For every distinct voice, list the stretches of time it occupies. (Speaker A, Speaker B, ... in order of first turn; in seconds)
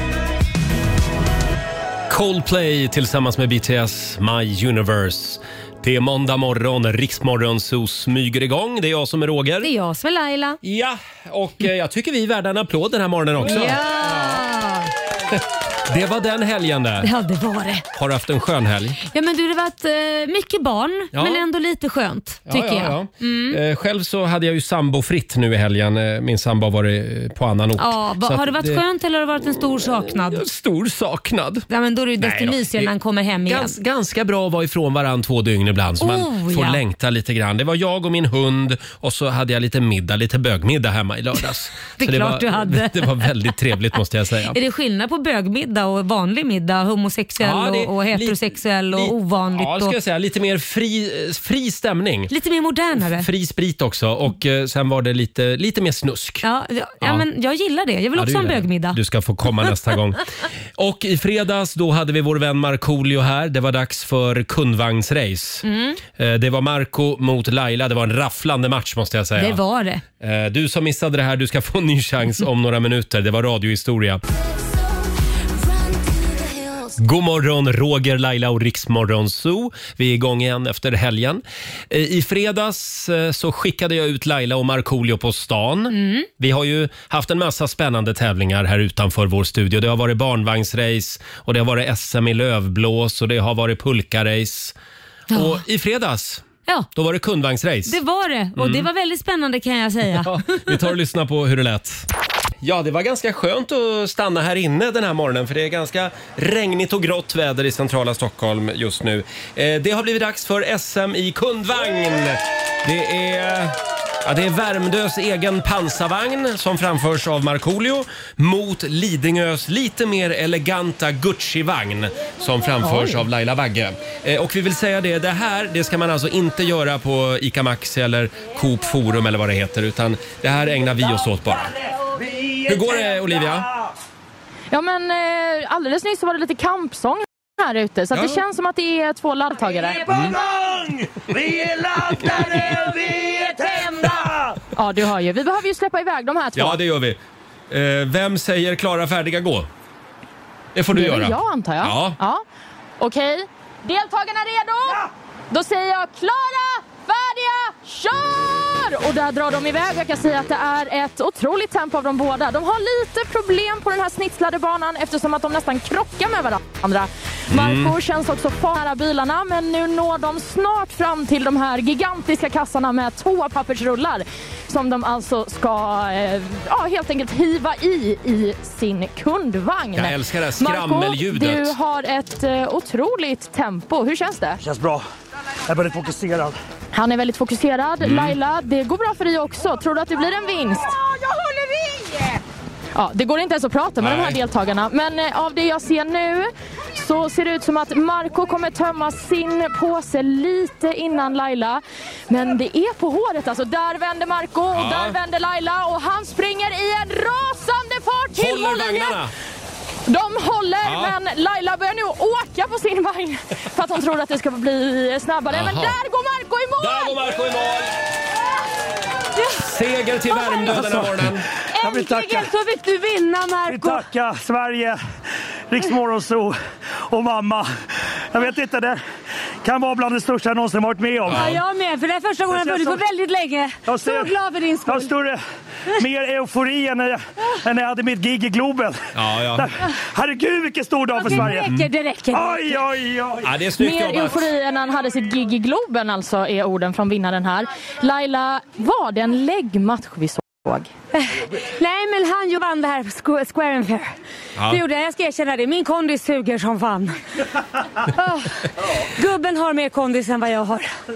Speaker A: 2.1-9.7, 10.6-14.4, 15.3-17.1, 17.9-19.0, 21.1-21.4, 22.5-28.8, 30.0-31.6, 32.2-32.9, 33.5-44.6, 47.4-52.3, 53.1-56.5, 58.1-60.2, 60.8-69.6, 70.2-74.2, 77.0-94.8, 95.3-98.0, 98.6-98.8, 100.2-102.1, 102.6-131.7, 132.7-133.7, 138.1-138.4, 140.1-140.4, 142.2-142.5, 146.6-149.7, 150.8-152.2, 167.5-167.9, 179.9-181.7, 188.0-188.4, 194.0-194.4, 204.7-205.2, 208.3-209.3, 210.8-211.1, 215.5-216.0, 216.8-218.0, 219.6-221.4, 231.3-231.6, 239.2-239.7, 243.4-244.4
Speaker B: 9.6-10.6, 13.4-14.9, 17.0-17.9, 19.1-23.6, 27.8-30.4, 31.7-33.8, 36.0-36.8, 42.0-43.3, 44.5-50.0, 52.3-53.3, 56.4-59.0, 65.6-66.0, 69.4-70.0, 85.9-86.3, 95.3-95.6, 97.9-100.7, 221.7-224.1, 231.3-235.1, 241.2-242.8, 251.1-254.2, 254.7-257.2, 258.0-260.9
Speaker C: 122.8-123.2, 134.7-140.1, 144.8-146.8, 150.9-152.4, 153.0-184.6, 186.9-190.9, 192.9-209.2, 210.1-217.2, 243.8-250.9
Speaker D: 132.3-132.7, 140.1-144.3, 184.6-185.0, 185.7-186.6, 220.8-222.5, 223.7-225.0, 225.7-226.6, 227.1-227.7, 228.3-229.0, 229.6-231.5, 232.5-233.0, 233.9-235.4, 235.9-239.0, 239.5-241.7, 242.3-243.5